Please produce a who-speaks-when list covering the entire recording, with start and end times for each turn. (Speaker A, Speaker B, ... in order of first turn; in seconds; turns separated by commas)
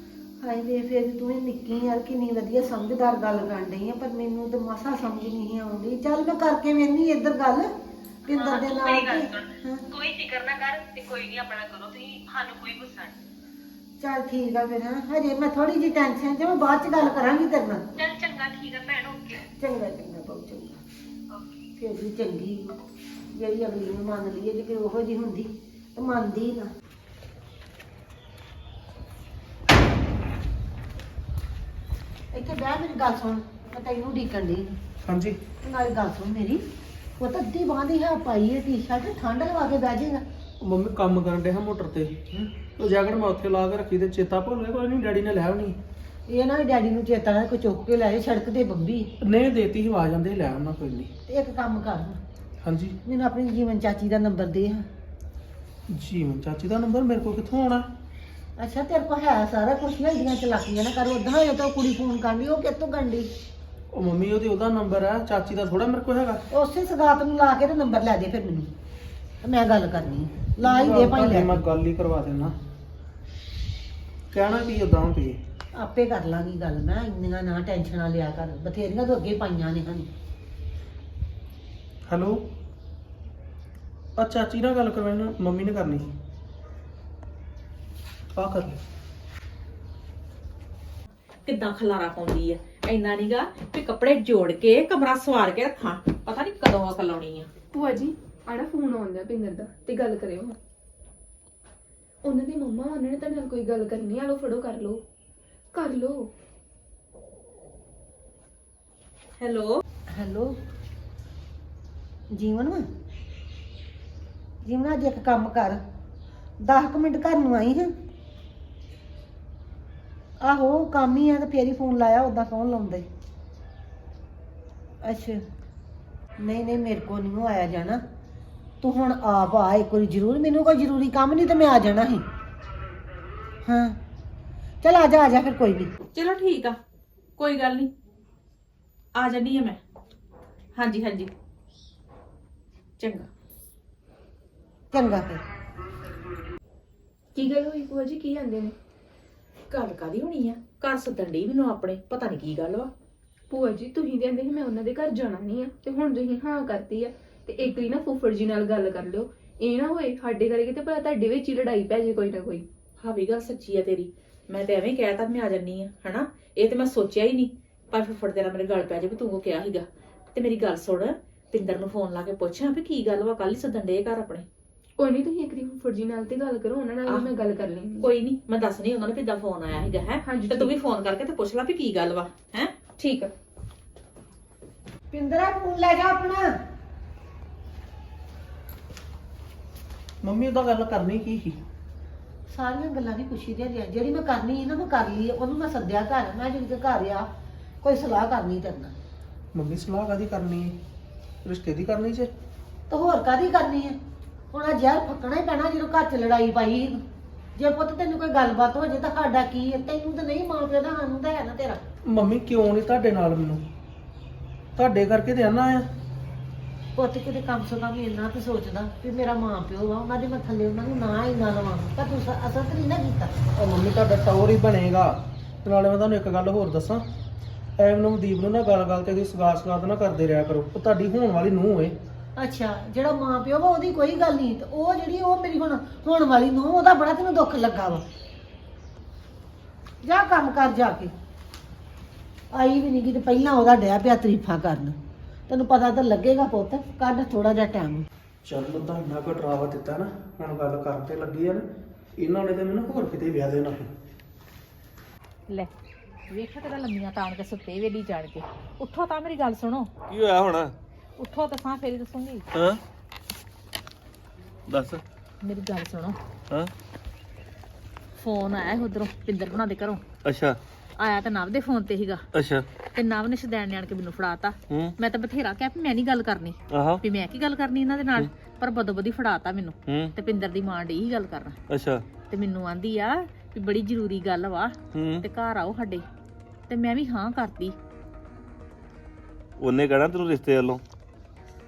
Speaker A: 0.4-7.7, Speaker A: 8.3-9.8, Speaker B: 8.3-13.2, Speaker A: 14.0-17.8, Speaker B: 18.0-19.5, Speaker A: 19.6-20.8, Speaker A: 21.8-22.8, Speaker A: 23.3-26.7, Speaker A: 32.3-34.8, Speaker C: 35.0-35.4, Speaker A: 35.6-36.6, Speaker A: 37.2-40.2, Speaker C: 40.6-45.8, Speaker A: 46.3-49.1, Speaker C: 49.2-51.1, Speaker A: 51.3-52.2, Speaker C: 52.6-53.0, Speaker A: 53.0-54.9, Speaker C: 55.9-57.9, Speaker A: 58.6-63.3, Speaker C: 63.9-66.4, Speaker A: 66.5-68.7, Speaker A: 69.4-71.7, Speaker C: 70.6-72.6, Speaker C: 74.3-75.4, Speaker A: 75.8-80.1, Speaker C: 82.1-82.4, Speaker C: 84.2-86.1, Speaker C: 88.3-88.8, Speaker D: 91.5-97.5, Speaker E: 97.7-100.6, Speaker E: 102.2-105.0, Speaker E: 105.7-106.3, Speaker D: 109.4-109.8, Speaker A: 110.1-110.5, Speaker A: 112.3-112.8, Speaker A: 114.7-115.8, Speaker A: 116.6-117.9, Speaker A: 120.4-123.1, Speaker A: 125.0-125.4, Speaker A: 126.4-128.0, Speaker A: 128.8-132.2, Speaker A: 133.7-134.0, Speaker A: 134.8-135.9, Speaker D: 136.1-136.8, Speaker D: 137.4-137.9, Speaker D: 139.2-139.8, Speaker D: 140.8-141.3, Speaker D: 143.0-143.3, Speaker A: 144.9-145.4, Speaker E: 147.3-148.7, Speaker D: 149.7-152.9, Speaker E: 153.5-162.7, Speaker D: 163.0-174.5, Speaker E: 175.0-178.1, Speaker D: 178.0-182.7, Speaker E: 180.2-180.7, Speaker E: 183.0-183.3, Speaker A: 185.1-186.5, Speaker C: 190.2-191.6, Speaker A: 192.5-197.3, Speaker A: 197.8-198.9, Speaker C: 199.5-200.8, Speaker C: 201.4-202.3, Speaker A: 202.9-204.0, Speaker A: 204.5-207.0, Speaker A: 207.6-211.8, Speaker C: 212.1-213.6, Speaker C: 214.8-215.9, Speaker A: 217.0-223.3, Speaker C: 223.6-227.1, Speaker C: 227.8-232.0, Speaker A: 232.4-238.0, Speaker A: 240.0-241.1, Speaker A: 242.5-245.0, Speaker A: 245.5-248.1, Speaker C: 248.4-253.9, Speaker D: 256.3-259.9, Speaker F: 260.1-260.8, Speaker D: 261.2-262.5, Speaker F: 262.5-262.8, Speaker F: 264.7-265.0, Speaker D: 265.4-266.2, Speaker D: 268.2-270.0, Speaker F: 270.2-270.6, Speaker D: 271.0-272.2, Speaker F: 272.3-272.6, Speaker D: 272.9-281.6, Speaker F: 274.7-274.9, Speaker F: 276.7-277.0, Speaker F: 279.9-280.1, Speaker F: 281.7-282.0, Speaker D: 282.3-286.0, Speaker F: 284.9-285.2, Speaker D: 286.7-287.8, Speaker F: 289.6-290.8